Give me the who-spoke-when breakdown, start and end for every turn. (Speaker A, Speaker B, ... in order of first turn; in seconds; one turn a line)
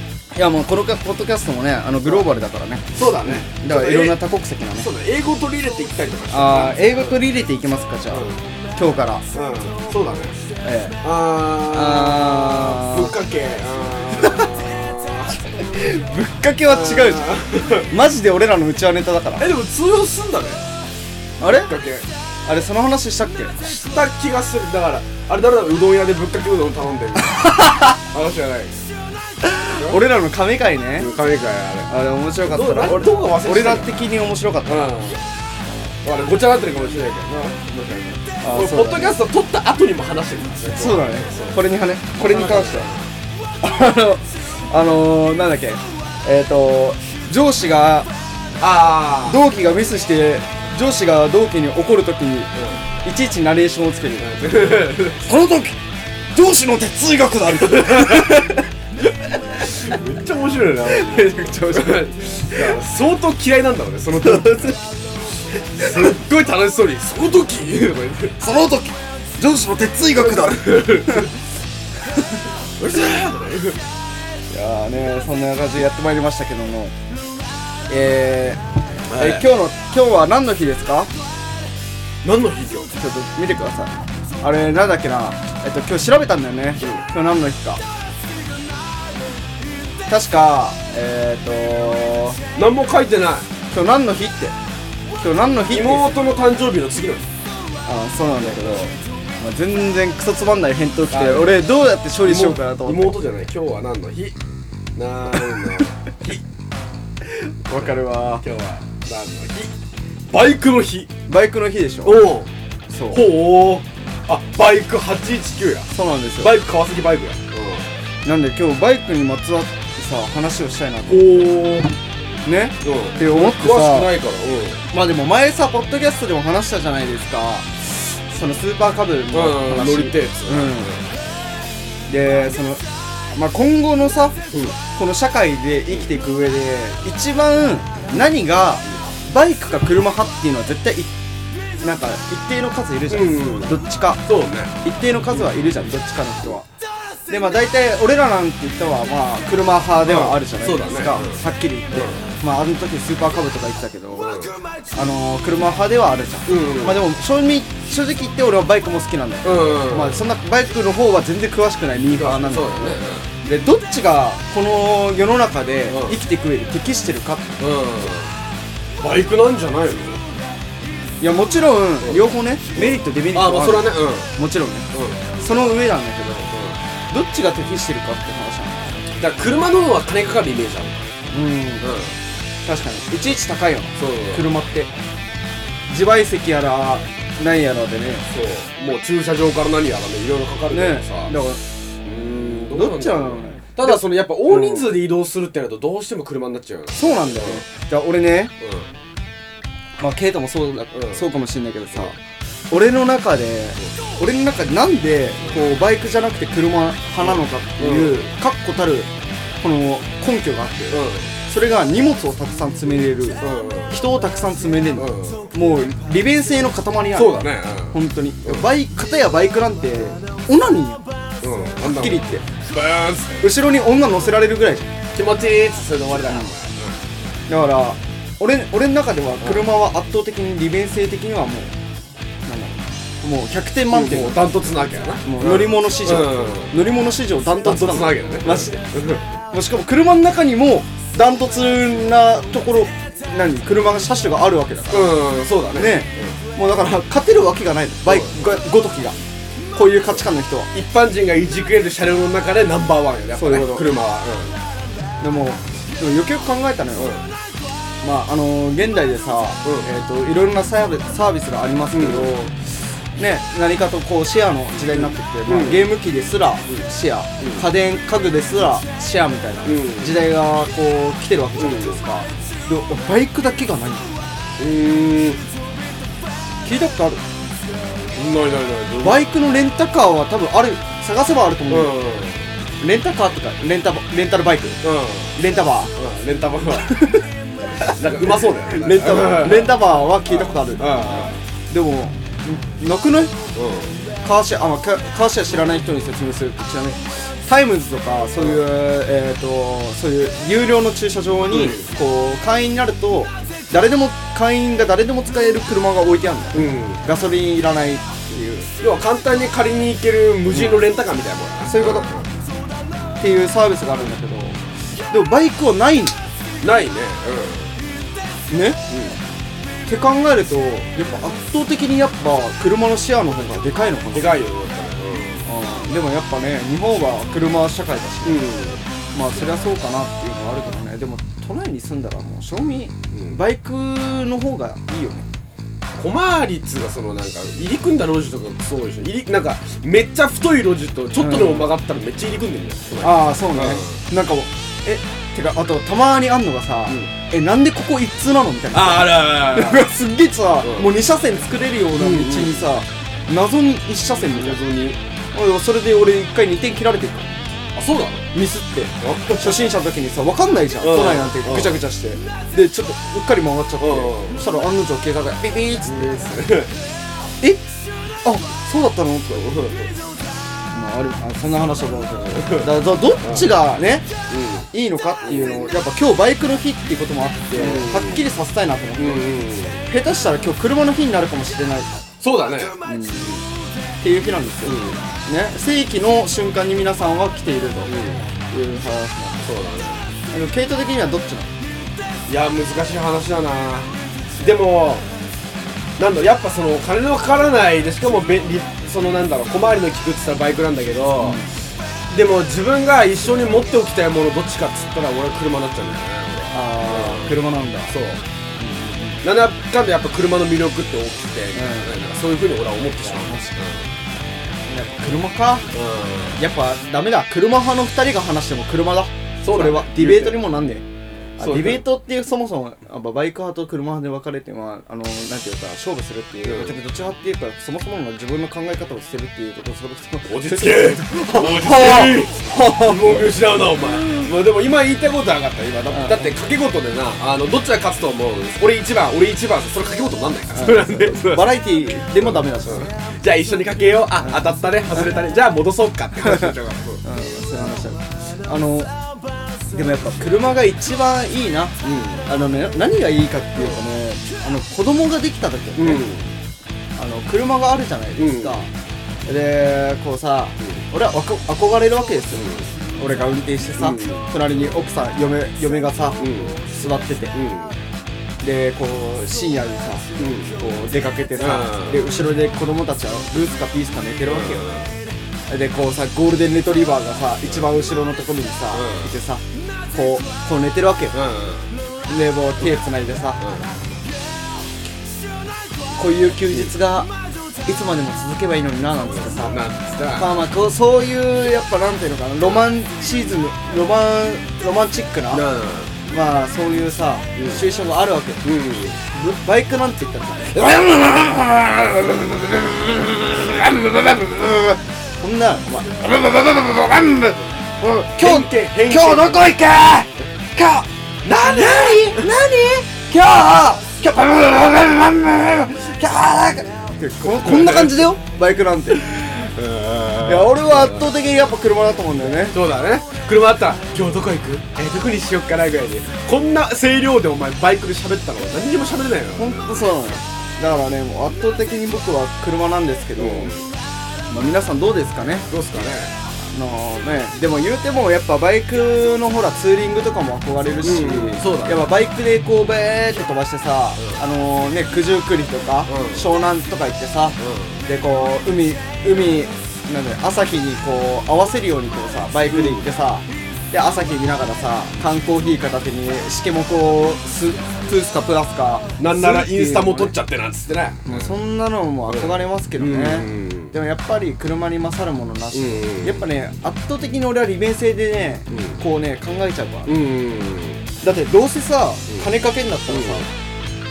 Speaker A: 0.3-4.9
Speaker B: 2.9-4.2
Speaker B: 4.8-7.3
Speaker A: 6.3-9.2
Speaker B: 8.1-8.4
Speaker B: 9.3-10.4
Speaker A: 10.6-11.0
Speaker B: 11.0-15.5
Speaker A: 11.7-13.2
Speaker A: 14.1-17.3
Speaker B: 16.7-17.9
Speaker A: 17.9-19.5
Speaker B: 19.4-20.6
Speaker A: 21.4-21.7
Speaker B: 21.4-22.1
Speaker A: 22.5-23.6
Speaker B: 23.6-28.9
Speaker A: 27.4-27.8
Speaker A: 29.6-31.1
Speaker B: 29.7-30.0
Speaker B: 31.0-31.9
Speaker A: 31.9-34.9
Speaker B: 32.5-34.1
Speaker B: 34.6-35.3
Speaker B: 36.0-41.6
Speaker A: 38.4-39.2
Speaker A: 40.7-42.9
Speaker B: 42.2-43.1
Speaker A: 43.6-48.1
Speaker B: 48.6-49.4
Speaker A: 49.2-52.5
Speaker B: 52.5-52.8
Speaker A: 53.0-54.3
Speaker B: 54.2-55.2
Speaker A: 55.2-55.8
Speaker A: 56.3-58.7
Speaker B: 57.8-58.4
Speaker B: 59.7-64.8
Speaker A: 60.8-62.8
Speaker A: 64.1-64.8
Speaker A: 65.8-66.1
Speaker B: 65.8-68.4
Speaker A: 68.4-71.3
Speaker B: 70.2-71.3
Speaker B: 72.8-73.8
Speaker A: 74.5-77.0
Speaker A: 77.9-78.6
Speaker B: 79.0-79.5
Speaker A: 79.2-81.1
Speaker B: 82.2-82.9
Speaker A: 82.9-87.8
Speaker A: 90.1-92.4
Speaker B: 92.5-93.5
Speaker A: 93.7-94.6
Speaker A: 95.2-96.1
Speaker B: 95.7-97.3
Speaker A: 97.9-103.2
Speaker B: 98.4-98.8
Speaker B: 101.1-101.7
Speaker B: 102.2-104.4
Speaker B: 105.0-106.4
Speaker A: 107.4-108.4
Speaker B: 107.8-109.7
Speaker B: 110.3-111.1
Speaker A: 111.3-112.3
Speaker B: 112.0-112.5
Speaker A: 112.9-113.3
Speaker B: 113.1-117.9
Speaker A: 115.9-116.6
Speaker A: 118.2-121.5
Speaker B: 121.1-122.0
Speaker A: 122.4-124.1
Speaker B: 122.8-124.8
Speaker A: 124.9-130.9
Speaker B: 129.3-131.1
Speaker A: 132.1-132.8
Speaker A: 133.3-134.4
Speaker A: 134.9-141.1
Speaker A: 141.8-144.2
Speaker B: 143.1-144.8
Speaker A: 144.8-146.7
Speaker B: 145.3-145.7
Speaker A: 147.3-167.6
Speaker B: 150.0-152.2
Speaker B: 154.1-154.6
Speaker B: 156.5-157.1
Speaker B: 159.4-160.3
Speaker B: 162.1-163.3
Speaker B: 165.9-166.2
Speaker B: 167.6-168.3
Speaker B: 169.0-170.3
Speaker A: 171.2-176.5
Speaker B: 172.0-174.3
Speaker B: 174.9-175.2
Speaker B: 176.5-176.8
Speaker A: 177.1-179.0
Speaker B: 179.1-181.1
Speaker A: 181.3-181.9
Speaker B: 181.8-182.2
Speaker A: 182.7-184.9
Speaker B: 184.0-184.5
Speaker A: 185.9-188.3
Speaker B: 188.3-191.4
Speaker A: 190.7-191.6
Speaker B: 192.0-197.7
Speaker A: 192.7-195.0
Speaker A: 196.9-198.5
Speaker B: 198.6-198.9
Speaker A: 200.0-202.2
Speaker B: 200.9-201.2
Speaker A: 202.7-209.1
Speaker B: 207.2-208.2
Speaker A: 209.6-221.0
Speaker B: 210.9-211.3
Speaker B: 213.4-214.0
Speaker B: 214.9-215.5
Speaker B: 217.1-218.7
Speaker B: 221.4-223.5
Speaker A: 221.8-222.4
Speaker A: 223.4-224.9
Speaker B: 225.1-227.0
Speaker A: 227.5-231.7
Speaker B: 229.4-229.7
Speaker A: 232.4-234.5
Speaker B: 233.9-236.8
Speaker A: 235.2-238.8
Speaker B: 237.6-239.3
Speaker A: 239.5-245.2
Speaker B: 244.9-246.4
Speaker A: 245.8-249.2
Speaker B: 248.1-248.4
Speaker A: 249.7-250.7
Speaker B: 250.7-254.6
Speaker A: 253.4-253.9
Speaker A: 255.2-257.1
Speaker B: 257.0-257.3
Speaker A: 258.0-274.3
Speaker B: 259.6-259.9
Speaker B: 261.9-262.3
Speaker B: 264.9-265.9
Speaker B: 267.4-267.7
Speaker B: 269.6-270.2
Speaker B: 271.6-272.0
Speaker B: 274.6-275.4
Speaker A: 276.6-277.2
Speaker B: 278.1-279.3
Speaker A: 279.0-281.9
Speaker B: 281.7-282.5
Speaker A: 282.8-284.8
Speaker B: 284.8-285.4
Speaker A: 285.4-285.9
Speaker B: 285.9-287.0
Speaker A: 286.9-287.2
Speaker B: 287.8-291.3
Speaker A: 287.9-293.4
Speaker B: 293.6-294.0
Speaker A: 294.2-308.7
Speaker B: 301.5-301.9
Speaker B: 306.5-307.0
Speaker B: 308.8-312.3
Speaker A: 310.5-310.8
Speaker A: 311.7-312.1
Speaker A: 313.2-316.2
Speaker B: 316.6-317.8
Speaker A: 318.5-318.8
Speaker B: 318.9-319.2
Speaker A: 319.9-324.4
Speaker B: 324.1-325.5
Speaker A: 325.4-328.5
Speaker B: 328.2-328.9
Speaker A: 329.1-335.3
Speaker B: 333.1-333.4
Speaker B: 336.0-344.1
Speaker A: 341.2-341.7
Speaker A: 342.9-354.6
Speaker B: 348.7-349.9
Speaker B: 350.6-350.9
Speaker B: 351.9-352.7
Speaker B: 354.3-355.0
Speaker A: 355.3-357.4
Speaker B: 357.8-358.3
Speaker A: 358.3-366.1
Speaker B: 359.0-359.7
Speaker B: 360.8-361.8
Speaker B: 363.8-364.4
Speaker B: 365.8-366.8
Speaker A: 368.2-369.6
Speaker B: 369.4-369.9
Speaker A: 370.7-374.1
Speaker B: 372.3-373.6
Speaker B: 374.3-374.7
Speaker A: 374.7-379.3
Speaker B: 375.2-375.7
Speaker B: 377.5-378.2
Speaker B: 379.0-379.9
Speaker A: 379.9-382.0
Speaker B: 382.2-382.8
Speaker A: 382.8-383.4
Speaker A: 384.0-387.9
Speaker B: 384.6-385.0
Speaker B: 387.9-388.3
Speaker A: 388.4-389.5
Speaker B: 389.4-390.1
Speaker A: 390.3-391.5
Speaker B: 392.3-395.1
Speaker B: 396.0-401.4
Speaker A: 401.2-401.5
Speaker B: 402.1-408.2
Speaker A: 406.5-407.9
Speaker A: 408.6-409.2
Speaker B: 409.2-413.9
Speaker A: 411.5-411.9
Speaker A: 413.0-413.6
Speaker A: 414.6-415.7
Speaker B: 415.7-416.4
Speaker A: 416.4-420.9
Speaker B: 419.4-420.5
Speaker B: 421.4-421.8
Speaker A: 421.4-433.4
Speaker B: 426.4-426.8
Speaker B: 430.3-441.6
Speaker A: 434.0-434.2
Speaker A: 435.9-436.3
Speaker A: 440.5-442.9
Speaker B: 442.2-447.0
Speaker A: 446.2-446.5
Speaker A: 447.0-448.9
Speaker A: 449.7-456.0
Speaker B: 451.8-452.3
Speaker B: 455.8-456.4
Speaker A: 457.0-458.7
Speaker B: 458.2-458.7
Speaker A: 459.2-467.4
Speaker B: 462.3-462.7
Speaker B: 463.8-464.3
Speaker B: 466.2-466.7
Speaker B: 467.3-467.8
Speaker A: 468.4-470.1
Speaker B: 470.2-470.6
Speaker A: 470.6-474.7
Speaker B: 471.4-472.1
Speaker B: 474.3-474.9
Speaker A: 475.5-481.2
Speaker B: 477.5-477.7
Speaker B: 478.7-479.2
Speaker B: 481.1-481.7
Speaker A: 482.1-483.4
Speaker B: 483.4-483.9
Speaker A: 485.9-487.1
Speaker A: 487.6-489.6
Speaker B: 489.1-490.3
Speaker A: 490.1-495.5
Speaker B: 495.3-495.9
Speaker A: 496.1-498.5
Speaker B: 497.4-497.6
Speaker B: 498.4-499.0
Speaker A: 499.1-519.2
Speaker B: 508.2-509.5
Speaker B: 511.2-512.3
Speaker B: 517.2-518.0
Speaker B: 519.4-521.1
Speaker A: 520.2-522.6
Speaker B: 522.5-530.1
Speaker A: 529.3-533.5
Speaker B: 533.2-533.7
Speaker A: 534.3-535.5
Speaker B: 535.5-536.1
Speaker A: 536.5-560.1
Speaker B: 540.8-541.9
Speaker B: 544.0-544.2
Speaker B: 545.9-546.3
Speaker B: 547.4-547.8
Speaker B: 552.5-552.8
Speaker B: 559.0-561.4
Speaker A: 561.1-569.9
Speaker B: 562.1-563.8
Speaker B: 565.5-566.3
Speaker B: 568.5-568.8
Speaker B: 569.9-570.9
Speaker A: 571.0-573.3
Speaker B: 572.9-573.3